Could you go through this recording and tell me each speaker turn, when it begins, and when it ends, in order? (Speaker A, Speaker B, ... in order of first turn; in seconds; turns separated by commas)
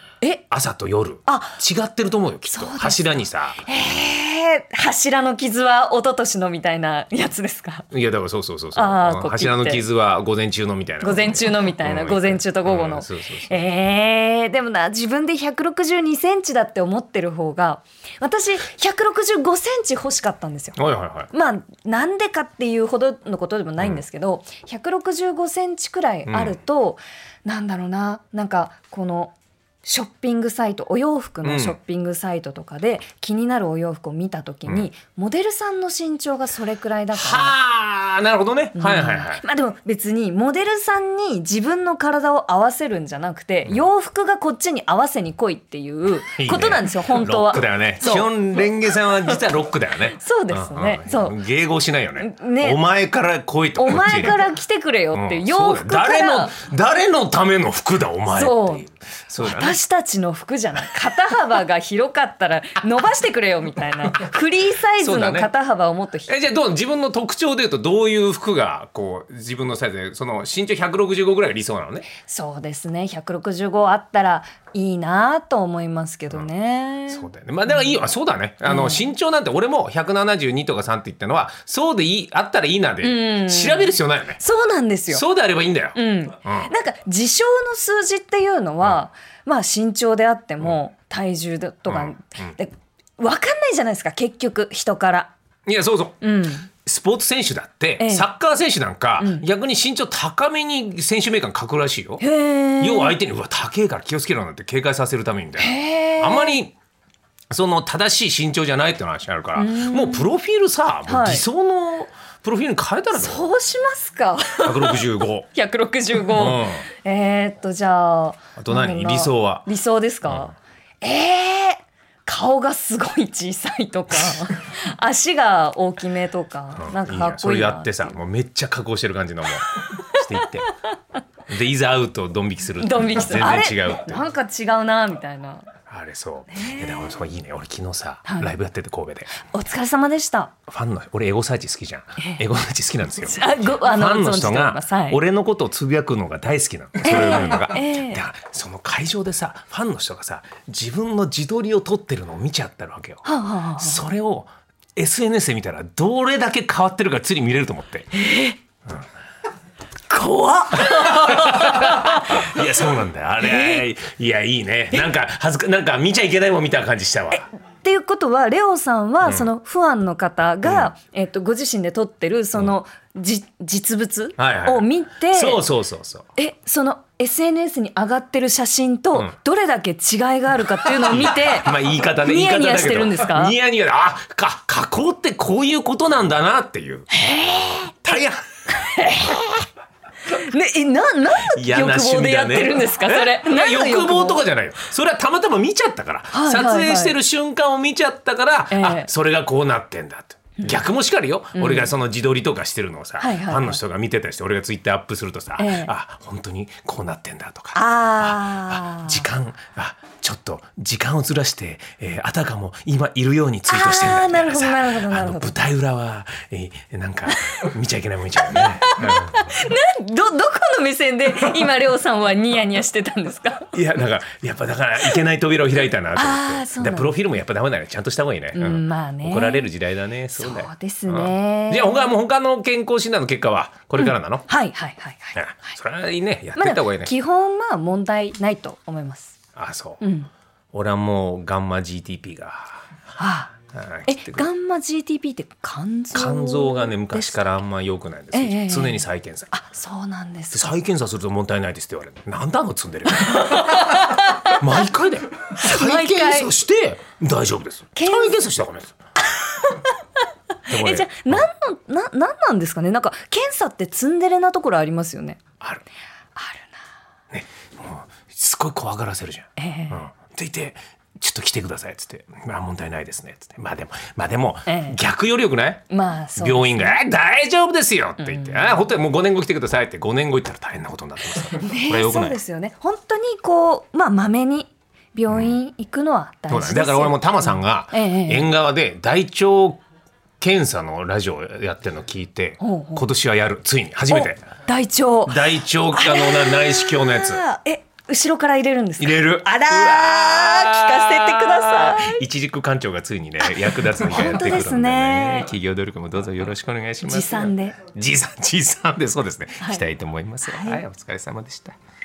Speaker A: 0.5-3.6, Speaker B: 1.3-1.6, Speaker B: 2.5-7.9, Speaker A: 7.9-13.6, Speaker B: 8.8-9.8, Speaker B: 11.0-20.8, Speaker A: 20.8-21.3, Speaker B: 21.3-29.3, Speaker A: 26.3-26.6, Speaker B: 29.9-37.5, Speaker A: 31.4-31.8, Speaker A: 37.1-39.4, Speaker B: 38.8-48.3, Speaker A: 46.4-54.5, Speaker B: 50.1-51.4, Speaker B: 52.2-52.8, Speaker B: 53.8-56.6, Speaker A: 55.1-59.8, Speaker B: 58.3-58.9, Speaker B: 59.4-66.3, Speaker A: 65.0-65.5, Speaker A: 66.3-72.1, Speaker B: 72.2-78.0, Speaker A: 77.1-84.4, Speaker B: 78.6-79.0, Speaker B: 83.0-85.2, Speaker A: 85.1-86.7, Speaker B: 86.0-95.3, Speaker A: 91.9-92.5, Speaker A: 95.7-96.2, Speaker B: 96.2-96.7, Speaker A: 96.8-102.2, Speaker B: 98.0-98.3, Speaker B: 99.2-99.5, Speaker B: 102.2-103.2, Speaker A: 102.8-106.8, Speaker B: 105.6-106.6, Speaker A: 107.5-113.5, Speaker B: 109.6-110.3, Speaker B: 111.1-111.5, Speaker B: 113.1-128.1, Speaker A: 114.6-115.5, Speaker A: 116.3-116.8, Speaker A: 118.6-119.7, Speaker A: 126.8-130.7, Speaker A: 131.5-134.2, Speaker B: 132.8-135.7, Speaker A: 135.9-139.3, Speaker B: 136.5-137.1, Speaker B: 138.3-138.5, Speaker B: 139.4-140.5, Speaker A: 140.7-153.2, Speaker B: 143.2-145.2, Speaker B: 147.0-148.2, Speaker B: 153.2-154.0, Speaker A: 153.8-158.1, Speaker B: 158.2-158.6, Speaker B: 160.1-162.6, Speaker A: 160.7-167.5, Speaker B: 163.4-163.8, Speaker B: 167.3-175.6, Speaker A: 169.2-169.5, Speaker A: 170.7-170.9, Speaker A: 174.4-176.3, Speaker B: 176.4-183.6, Speaker A: 181.0-187.1, Speaker B: 187.1-188.1, Speaker A: 188.1-188.4, Speaker B: 188.7-189.7, Speaker B: 190.3-194.4, Speaker A: 191.4-219.4, Speaker B: 196.3-197.2, Speaker B: 198.7-199.1, Speaker B: 201.6-201.9, Speaker B: 203.2-203.8, Speaker B: 205.6-205.9, Speaker B: 207.7-209.2, Speaker B: 213.7-215.6, Speaker B: 217.3-217.7, Speaker B: 218.4-223.7, Speaker A: 223.7-234.5, Speaker B: 226.1-227.2, Speaker B: 228.5-229.7, Speaker B: 230.3-232.1, Speaker B: 234.0-235.8, Speaker A: 235.4-237.1, Speaker B: 236.6-239.4, Speaker A: 239.6-240.0, Speaker B: 240.0-240.3, Speaker A: 240.7-242.8, Speaker B: 243.2-243.5, Speaker A: 243.7-244.5, Speaker B: 244.1-247.5, Speaker A: 246.1-249.5, Speaker B: 248.3-250.8, Speaker A: 250.5-258.9, Speaker B: 253.2-254.7, Speaker B: 255.6-256.5, Speaker B: 257.9-258.4, Speaker B: 259.3-259.9, Speaker B: 260.7-265.4, Speaker A: 260.7-261.5, Speaker B: 266.4-266.8, Speaker A: 267.3-275.8, Speaker B: 269.6-270.1, Speaker B: 274.7-275.0, Speaker B: 275.9-277.0, Speaker A: 276.4-282.4, Speaker B: 278.2-278.8, Speaker B: 281.5-288.5, Speaker A: 285.3-285.6, Speaker A: 286.5-289.8, Speaker A: 290.4-294.4, Speaker B: 292.6-293.1, Speaker B: 294.1-302.2, Speaker A: 295.3-297.4, Speaker A: 299.0-311.8, Speaker B: 303.4-305.5, Speaker B: 307.1-307.8, Speaker B: 310.4-310.8